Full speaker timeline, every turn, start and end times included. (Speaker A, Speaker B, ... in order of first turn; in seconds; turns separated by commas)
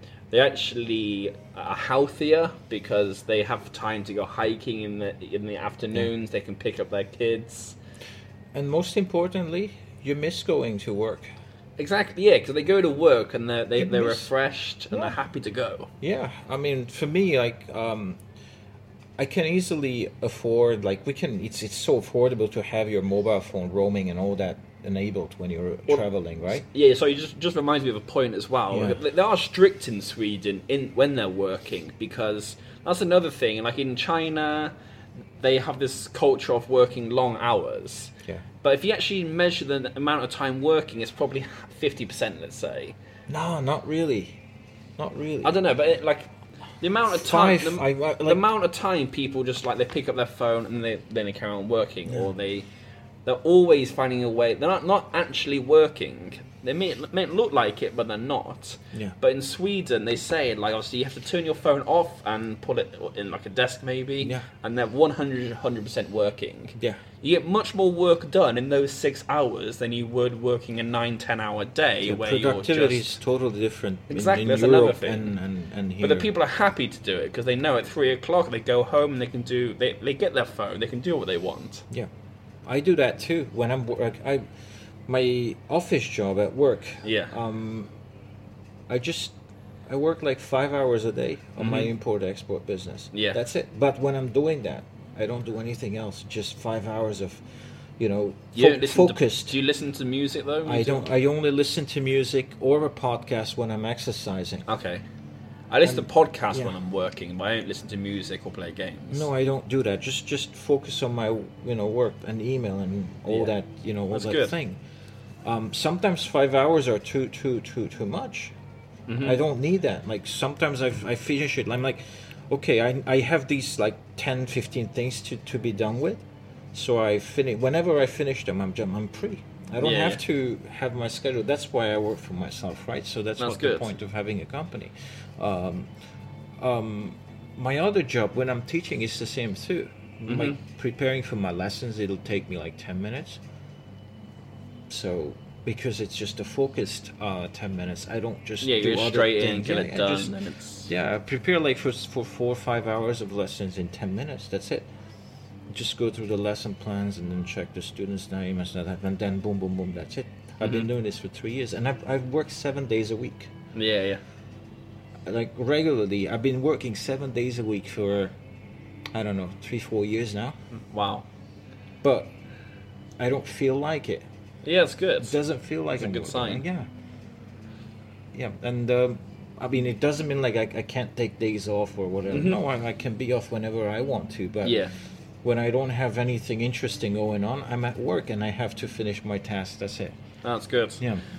Speaker A: 0.3-7.8, Speaker B: 8.5-11.3, Speaker A: 11.8-15.9, Speaker B: 13.8-14.3, Speaker B: 14.9-15.2, Speaker B: 16.0-18.2, Speaker B: 19.2-26.6, Speaker A: 25.9-34.7, Speaker B: 28.7-29.0, Speaker A: 35.4-43.0, Speaker B: 43.3-44.4, Speaker B: 45.0-45.6, Speaker A: 45.4-52.7, Speaker B: 47.1-48.4, Speaker A: 53.2-73.1, Speaker B: 66.8-67.0, Speaker B: 72.0-76.3, Speaker A: 74.1-75.3, Speaker A: 76.0-81.9, Speaker B: 82.6-84.5, Speaker B: 85.1-87.9, Speaker A: 87.0-87.3, Speaker B: 88.9-89.4, Speaker B: 89.9-97.4, Speaker A: 91.6-91.9, Speaker A: 93.1-93.4, Speaker B: 98.0-99.6, Speaker A: 98.5-101.1, Speaker B: 100.6-104.6, Speaker A: 104.7-105.0, Speaker A: 105.7-109.3, Speaker B: 105.8-106.7, Speaker B: 109.1-114.8, Speaker A: 114.1-114.5, Speaker B: 115.4-118.5, Speaker A: 119.1-119.4, Speaker B: 119.2-135.9, Speaker A: 129.8-130.2, Speaker A: 133.4-133.9, Speaker B: 136.6-143.4, Speaker A: 140.3-140.6, Speaker B: 144.9-150.4, Speaker A: 148.6-150.9, Speaker B: 150.9-154.9, Speaker B: 155.7-163.5, Speaker A: 160.6-160.9, Speaker A: 163.7-164.2, Speaker B: 165.2-168.3, Speaker B: 169.1-170.6, Speaker A: 170.7-171.2, Speaker B: 172.0-172.3, Speaker B: 173.2-174.2, Speaker A: 174.6-175.4, Speaker B: 175.2-176.9, Speaker A: 176.0-176.6, Speaker B: 178.3-184.9, Speaker A: 182.3-182.6, Speaker A: 184.6-184.9, Speaker B: 185.4-190.2, Speaker A: 190.4-191.0